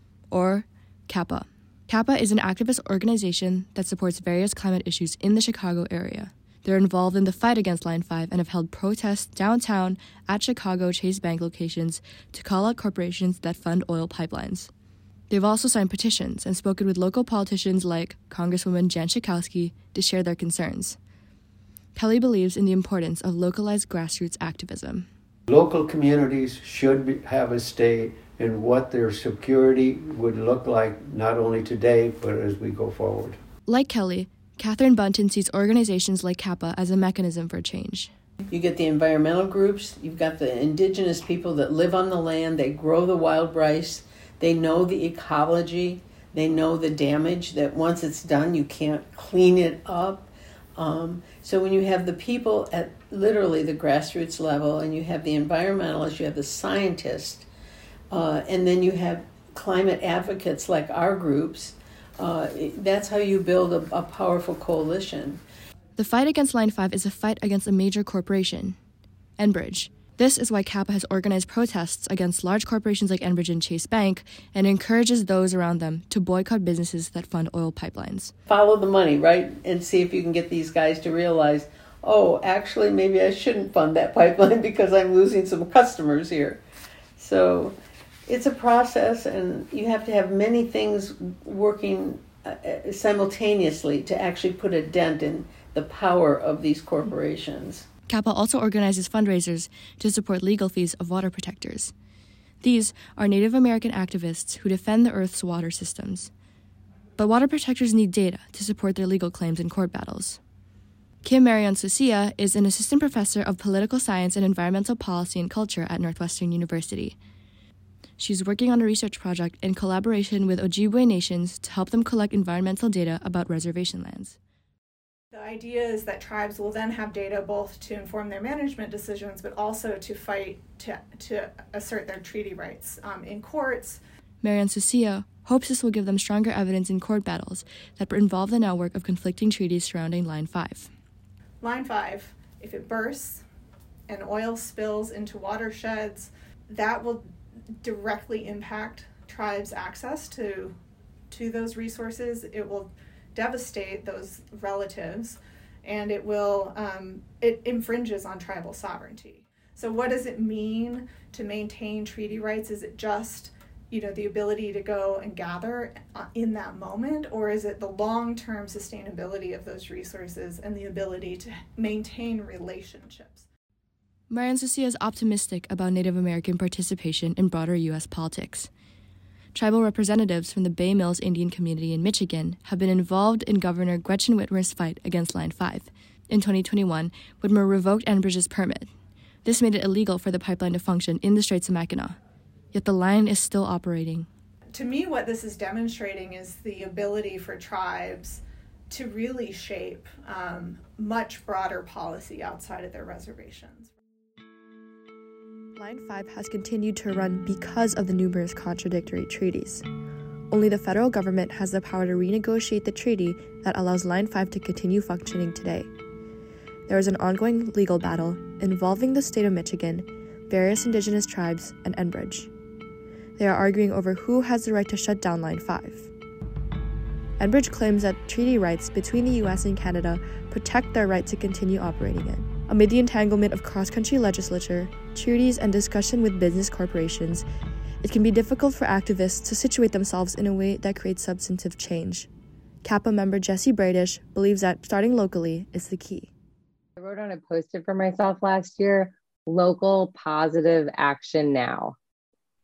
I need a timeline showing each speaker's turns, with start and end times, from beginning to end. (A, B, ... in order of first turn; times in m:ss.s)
0:00.3-0:14.7 A
0:15.3-0:21.0 A
0:21.9-0:25.1 A
0:25.5-0:33.4 B
0:33.6-0:38.1 A
0:38.5-0:57.5 C
0:58.1-1:05.4 C
1:06.0-1:08.8 A
1:09.4-1:18.3 A
1:18.5-1:26.6 C
1:27.2-1:27.8 C
1:28.3-1:37.9 C
1:38.1-1:41.9 A
1:42.6-1:46.3 A
1:47.2-1:50.4 A
1:51.2-1:57.2 A
1:58.2-2:04.4 A
2:05.3-2:14.0 D
2:14.4-2:20.9 A
2:21.6-2:23.4 D
2:24.1-2:27.2 D
2:27.8-2:30.7 D
2:31.3-2:53.5 D
2:54.3-2:58.7 A
2:59.5-3:08.9 A
3:09.4-3:12.2 A
3:12.7-3:14.3 A
3:14.7-3:23.9 D
3:25.8-3:29.8 A
3:30.5-3:35.9 A
3:36.9-3:42.5 A
3:43.4-3:46.1 A
3:47.4-3:57.4 A
3:58.0-4:02.3 A
4:02.8-4:06.3 A
4:07.0-4:12.0 E